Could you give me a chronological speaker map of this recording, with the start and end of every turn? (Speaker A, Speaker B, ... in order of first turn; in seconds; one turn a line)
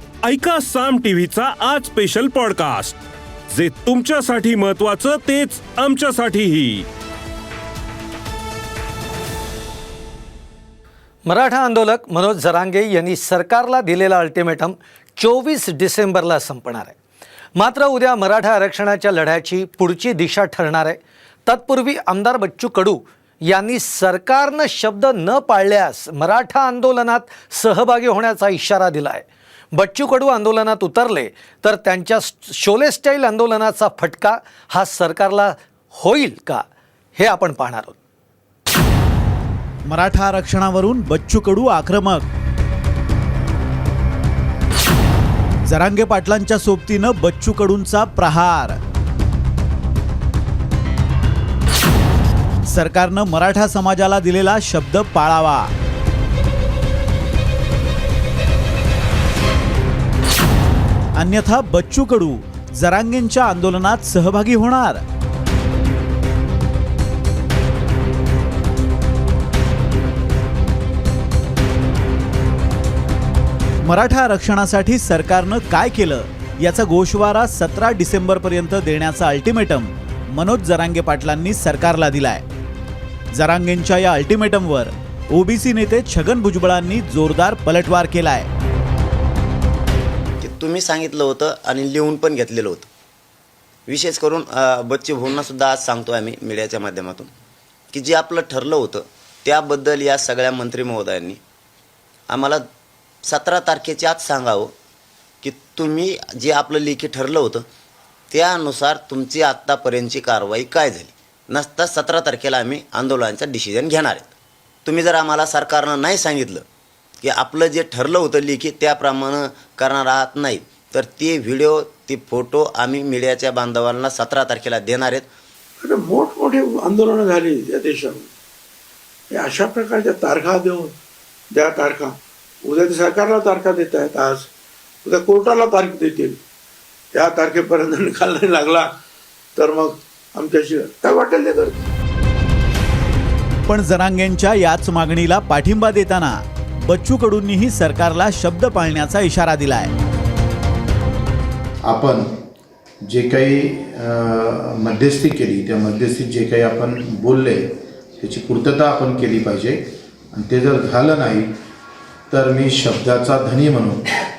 Speaker A: 0.2-6.9
Speaker B: 11.3-17.0
Speaker B: 17.6-36.6
Speaker B: 37.2-38.0
Speaker C: 39.9-42.3
Speaker C: 45.7-48.8
Speaker C: 52.7-55.7
Speaker C: 61.2-65.0
Speaker C: 73.8-82.4
Speaker C: 83.3-88.5
Speaker D: 90.4-92.9
Speaker D: 93.9-97.3
Speaker D: 97.9-101.4
Speaker D: 102.3-102.7
Speaker D: 103.2-104.7
Speaker D: 105.4-107.7
Speaker D: 108.3-114.3
Speaker D: 114.8-116.7
Speaker D: 117.2-125.3
Speaker E: 125.8-128.3
Speaker E: 129.3-130.9
Speaker E: 131.5-134.5
Speaker E: 135.0-136.4
Speaker E: 137.1-138.9
Speaker E: 139.6-141.8
Speaker C: 143.7-149.9
Speaker F: 151.8-152.3
Speaker F: 153.1-157.6
Speaker F: 158.2-159.8
Speaker F: 160.3-161.5
Speaker F: 162.3-164.0